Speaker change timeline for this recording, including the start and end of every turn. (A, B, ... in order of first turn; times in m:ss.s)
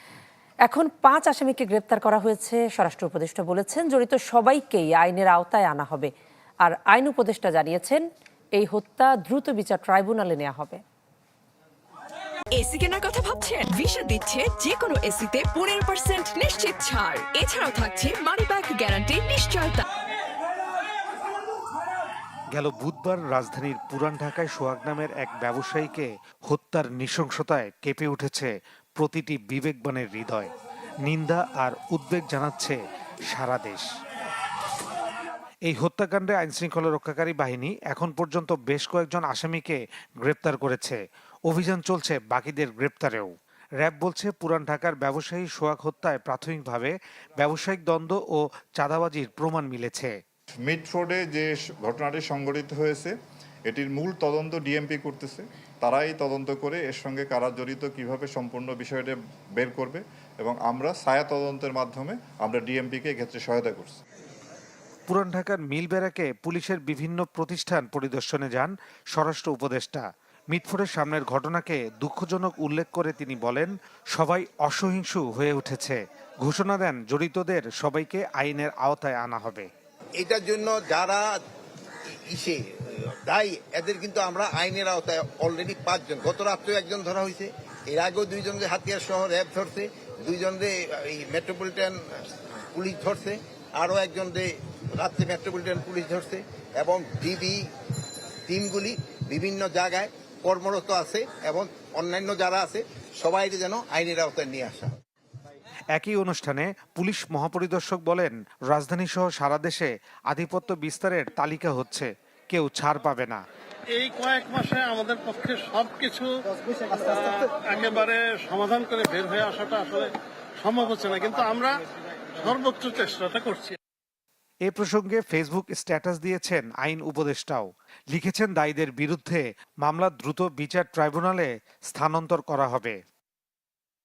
0:00.6-0:06.1 A
0:06.6-0:08.0 A
0:08.6-0:10.8 A
0:12.5-0:19.8 B
0:22.5-0:30.5 C
0:31.0-0:33.9 C
0:35.6-0:50.1 C
0:50.6-0:53.1 D
0:53.7-1:04.0 D
1:05.1-1:19.7 C
1:20.2-1:21.2 E
1:22.3-1:22.6 E
1:23.3-1:34.4 E
1:35.0-1:36.4 E
1:36.9-1:37.6 E
1:38.5-1:44.9 E
1:45.9-1:53.4 C
1:53.9-2:01.8 F
2:02.3-2:03.8 F
2:04.6-2:13.0 C